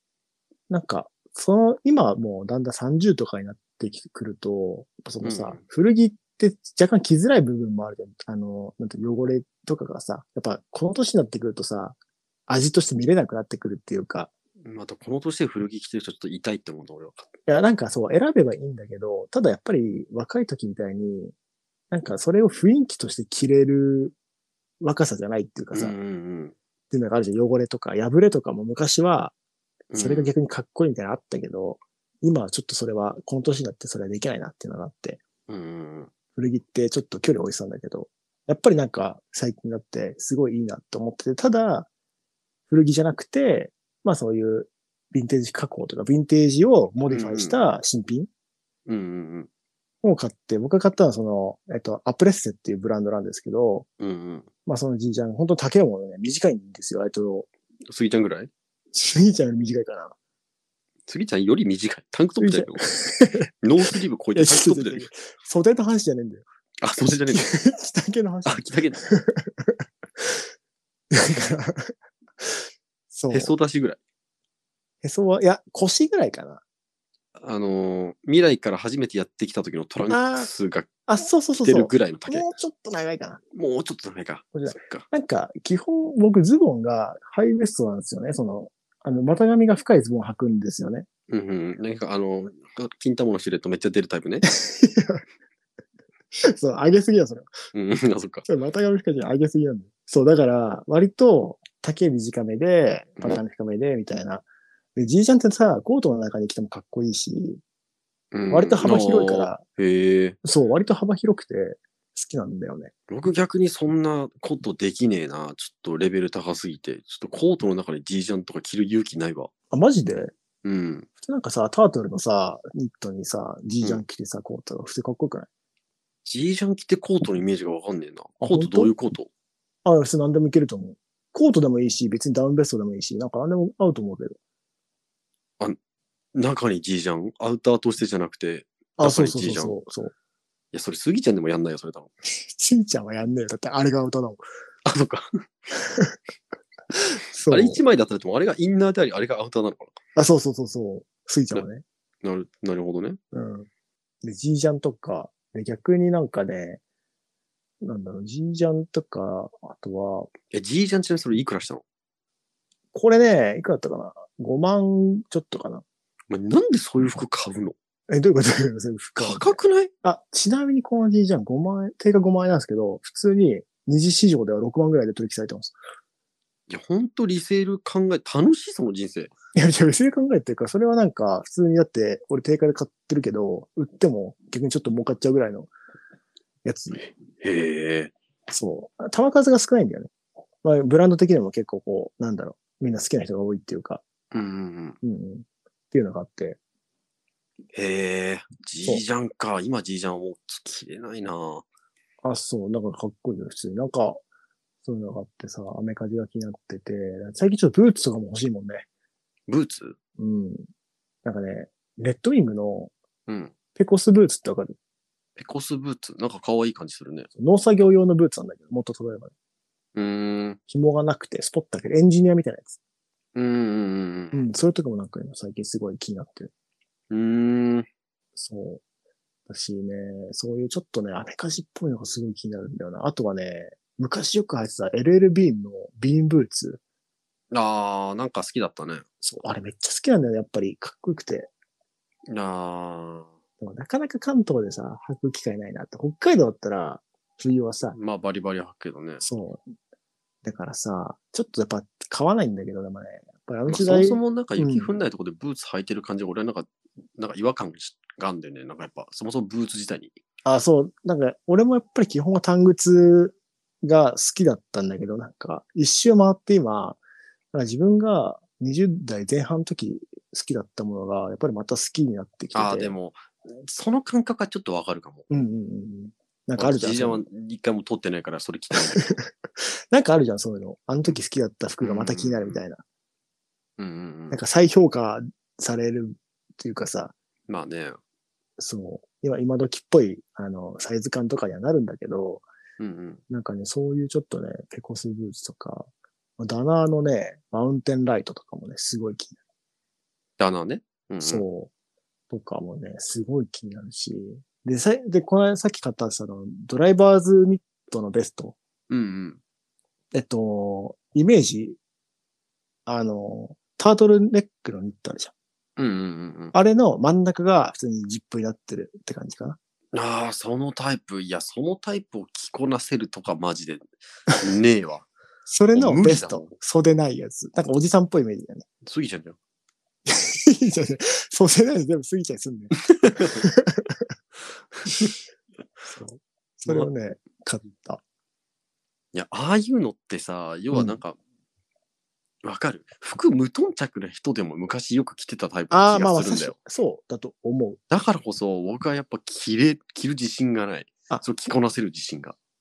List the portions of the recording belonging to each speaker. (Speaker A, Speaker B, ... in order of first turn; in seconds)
Speaker A: 0.7-12.0, 12.5-14.3, 17.5-21.3, 21.9-24.1, 24.8-25.9, 26.9-29.3, 29.9-35.2, 36.3-41.9, 42.7-48.3, 50.0-53.9, 54.6-57.5, 58.9-60.1, 62.4-66.4, 67.3-70.3, 71.1-73.5, 75.0-76.6, 80.1-80.5, 81.0-83.4, 84.5-91.0, 94.4-95.2, 96.4-97.5, 98.5-107.6, 108.5-109.6, 110.4-112.9, 119.7-120.3, 121.2-125.5, 128.4-128.9, 129.8-134.4, 139.0-140.1, 142.4-144.4, 145.7-146.2, 146.9-147.8, 150.2-151.8, 153.3-153.7, 154.2-156.8, 157.8-160.3, 162.9-165.8, 168.1-175.7, 179.5-185.7, 186.6-187.0, 188.5-190.1, 190.6-194.0, 195.0-196.6, 202.2-204.2, 204.8-208.9, 210.2-210.7, 211.2-212.9, 213.7-214.8, 217.3-219.3, 220.7-222.8, 224.3-226.5, 228.3-228.8, 229.5-236.8, 239.2-241.5, 243.6-248.0, 249.2-249.6, 250.4-254.9, 260.4-267.0, 267.5-272.9, 275.3-277.2, 278.9-279.3, 279.9-282.8, 284.3-287.1, 288.6-292.5, 293.3-295.9, 296.4-299.4, 301.2-301.7, 302.3-308.6, 310.1-311.8, 312.9-315.3, 316.5-319.6, 325.5-328.6, 330.1-334.0, 335.9-338.0, 340.7-341.0, 345.7-347.8
Speaker B: 5.2-5.6, 14.6-17.3, 25.7-26.5, 29.9-30.3, 35.5-36.1, 47.1-47.6, 48.9-49.5, 54.0-54.5, 57.9-58.5, 61.1-62.9, 63.6-65.1, 66.8-67.5, 68.5-69.0, 73.3-74.0, 77.3-80.9, 81.6-82.5, 83.5-85.0, 91.3-94.4, 97.7-98.5, 108.3-110.4, 113.1-119.5, 120.6-121.1, 126.2-129.3, 136.3-139.7, 140.7-142.1, 144.8-145.5, 147.5-150.0, 152.2-153.2, 160.5-161.8, 166.3-167.7, 169.2-169.9, 176.7-179.3, 187.4-188.1, 194.3-195.0, 197.7-201.6, 209.5-210.0, 213.3-213.5, 215.4-217.3, 219.9-220.6, 223.3-224.4, 227.1-227.9, 237.5-239.0, 242.3-243.3, 247.9-249.2, 253.7-260.2, 272.5-275.2, 276.6-279.1, 281.8-282.6, 283.8-284.4, 287.5-288.0, 292.8-293.2, 300.4-301.4, 308.9-309.4, 315.8-316.5, 319.9-325.1, 325.7-326.5, 328.8-329.4, 333.0-333.4, 334.9-335.1, 339.1-341.2, 342.4-346.5, 347.9-352.3